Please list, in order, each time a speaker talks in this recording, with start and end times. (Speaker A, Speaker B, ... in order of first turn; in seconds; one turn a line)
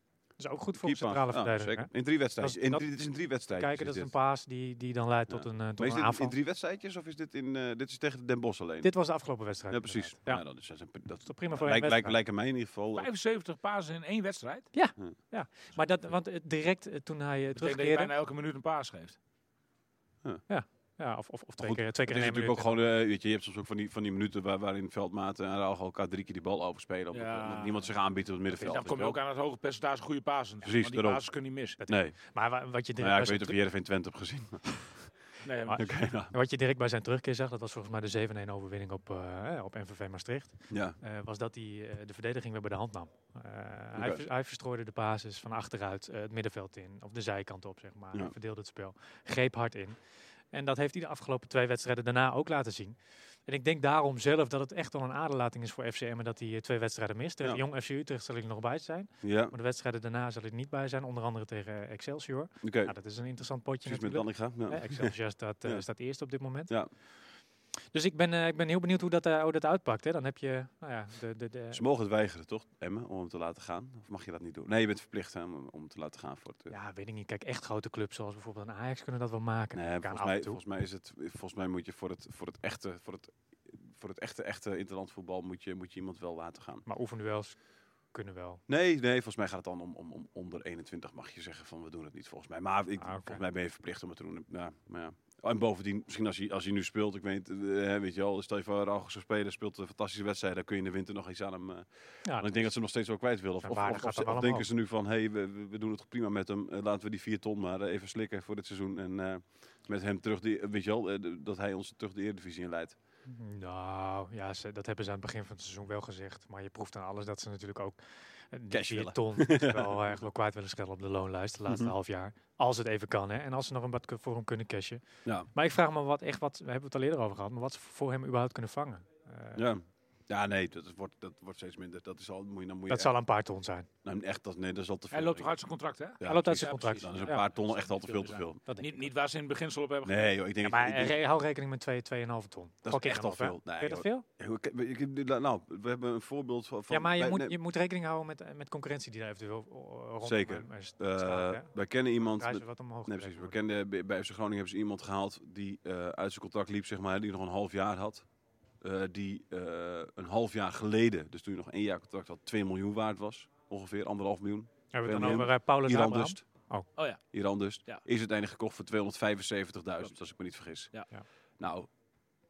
Speaker A: 0.4-2.9
Speaker B: 0.8-4.1
Speaker A: 3.5-6.3
Speaker B: 5.3-8.9
Speaker A: 8.8-10.4
Speaker B: 9.7-13.1
Speaker A: 11.2-12.2
Speaker C: 12.9-14.7
Speaker A: 14.7-18.1
Speaker C: 17.6-19.2
Speaker A: 20.5-22.8
Speaker B: 21.6-29.2
Speaker C: 27.1-27.9
Speaker C: 28.5-31.8
Speaker B: 30.6-31.3
Speaker A: 31.8-33.6
Speaker B: 31.8-32.2
Speaker B: 33.0-35.1
Speaker C: 35.4-35.8
Speaker A: 35.6-50.0
Speaker B: 35.7-36.3
Speaker B: 40.7-41.0
Speaker B: 44.0-44.2
Speaker A: 50.5-66.7
Speaker B: 59.2-59.5
Speaker B: 62.6-62.9
Speaker B: 63.8-65.8
Speaker A: 67.9-71.8
Speaker B: 71.7-76.7
Speaker A: 76.7-80.6
Speaker B: 79.7-86.8
Speaker A: 86.8-88.6
Speaker B: 88.7-113.0
Speaker A: 93.0-93.4
Speaker A: 102.2-102.6
Speaker A: 103.6-104.7
Speaker A: 113.3-118.0
Speaker A: 118.5-129.6
Speaker B: 118.7-120.2
Speaker B: 121.7-121.9
Speaker B: 129.5-133.1
Speaker A: 132.9-133.9
Speaker B: 134.0-135.5
Speaker C: 135.1-140.3
Speaker B: 136.2-138.6
Speaker A: 136.2-137.4
Speaker A: 138.7-139.1
Speaker B: 140.0-141.2
Speaker A: 140.6-144.2
Speaker B: 142.8-147.6
Speaker A: 146.9-153.6
Speaker B: 150.2-158.3
Speaker B: 158.8-166.4
Speaker A: 164.9-166.9
Speaker C: 166.9-167.2
Speaker B: 167.3-171.0
Speaker B: 171.6-171.9